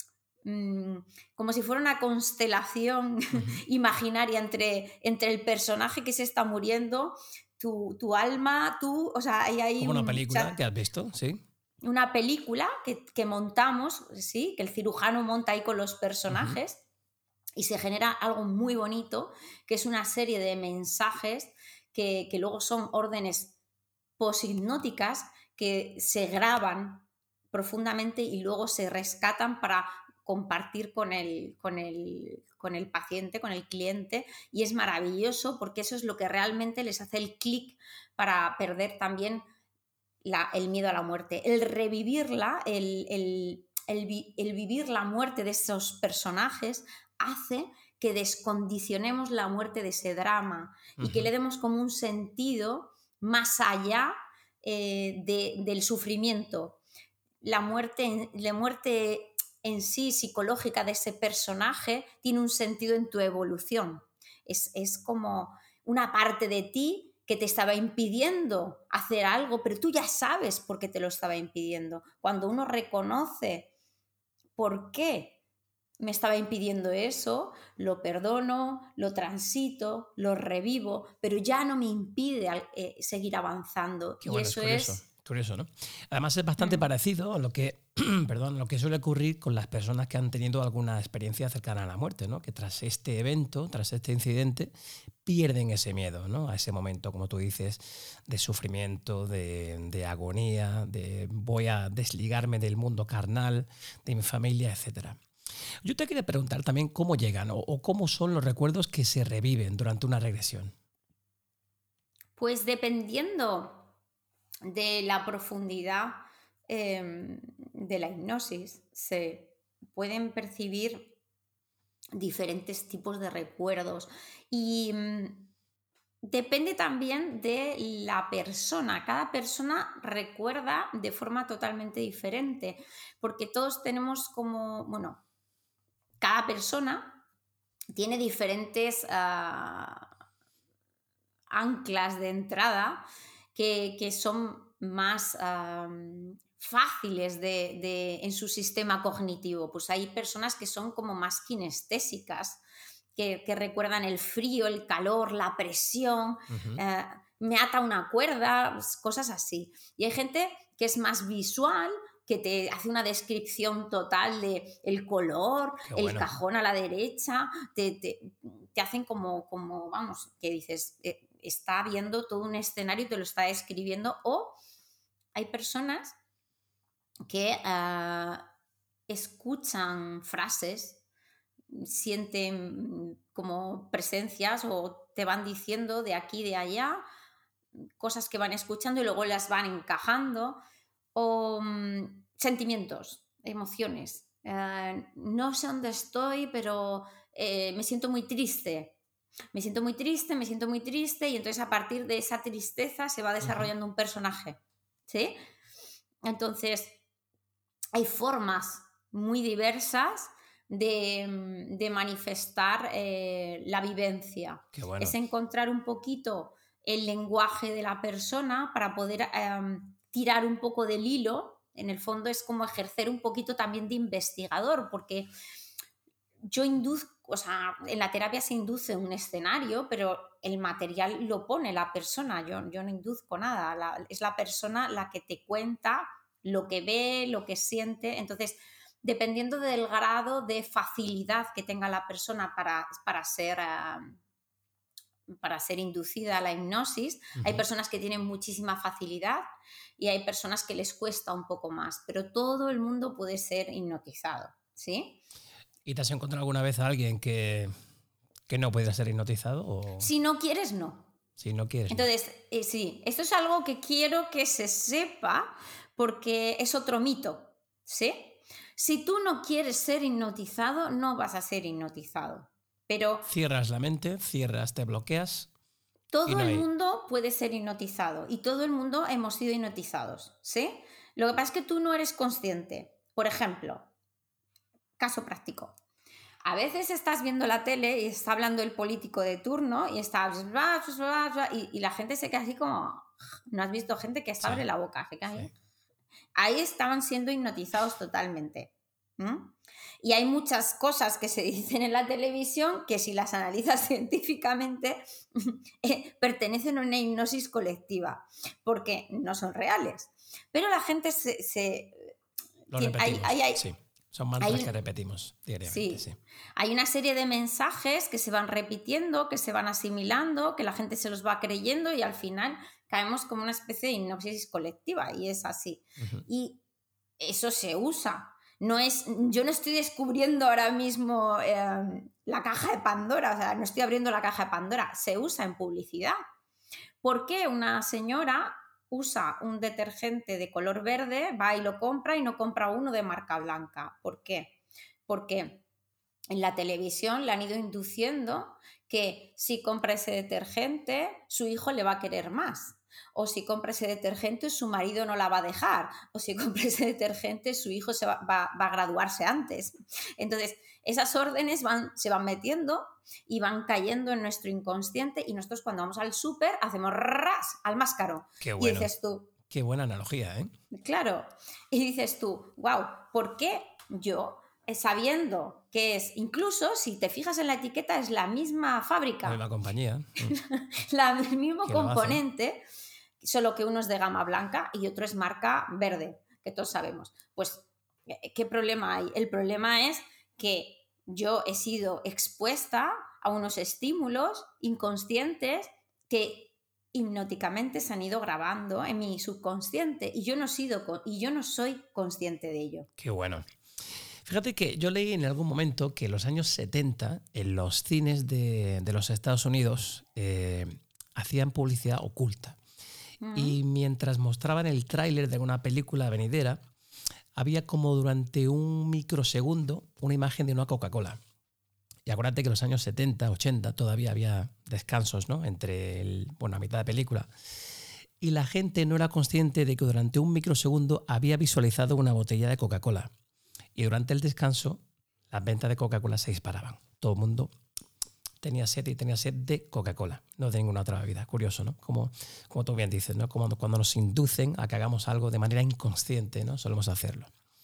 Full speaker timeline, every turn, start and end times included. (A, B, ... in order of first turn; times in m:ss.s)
0:00.4-0:10.6 A
0:03.4-0:03.6 B
0:09.8-0:11.4 B
0:11.8-0:16.8 A
0:16.3-0:16.6 B
0:17.6-0:23.5 A
0:24.2-0:39.4 A
0:40.2-0:56.8 A
0:51.0-0:51.3 B
0:57.4-1:13.7 A
1:14.6-1:15.4 A
1:16.0-1:25.0 A
1:24.2-1:34.7 B
1:26.6-1:26.9 A
1:35.2-1:45.2 B
1:45.8-1:50.7 B
1:52.4-1:53.9 A
1:54.6-2:01.2 A
2:02.2-2:05.5 A
2:06.2-2:15.2 A
2:16.2-2:17.2 A
2:17.9-2:20.1 A
2:21.5-2:32.6 A
2:33.2-2:54.6 A
2:36.5-2:36.8 B
2:45.9-2:46.3 B
2:55.4-2:56.2 A
2:57.2-2:58.5 A
2:59.1-3:01.0 A
3:01.7-3:07.0 A
3:08.0-3:10.6 A
3:11.2-3:19.0 A
3:19.5-3:25.4 A
3:23.4-3:23.7 B
3:26.2-3:27.0 A
3:28.0-3:45.3 A
3:34.7-3:35.2 B
3:46.4-4:04.2 A
4:05.3-4:09.5 A
4:07.4-4:07.6 B
4:10.0-4:15.2 A
4:15.8-4:17.7 B
4:18.5-4:20.1 B
4:20.0-4:21.1 A
4:21.4-4:22.1 B
4:21.9-4:33.3 A
4:33.3-4:35.5 B
4:36.1-4:43.9 A
4:36.3-4:36.7 B
4:45.0-4:45.8 A
4:46.4-4:55.5 A
4:56.4-5:12.2 A
5:12.7-5:16.2 B
5:12.7-5:13.6 A
5:14.4-5:14.7 A
5:15.6-5:26.6 A
5:26.0-5:26.2 B
5:27.2-5:36.2 A
5:37.0-5:44.5 A
5:45.1-5:45.6 A
5:46.3-6:09.3 A
6:08.4-6:08.9 B
6:09.5-6:10.5 B
6:10.7-6:19.4 A
6:19.2-6:20.4 B
6:20.3-6:22.6 A
6:21.7-6:22.2 B
6:23.2-6:42.9 A
6:43.0-6:43.4 B
6:44.2-6:52.6 B
6:53.2-6:53.6 A
6:53.4-6:56.6 B
6:57.3-7:01.2 B
7:02.1-7:07.3 B
7:08.2-7:13.1 B
7:13.8-7:17.5 B
7:18.4-7:27.3 B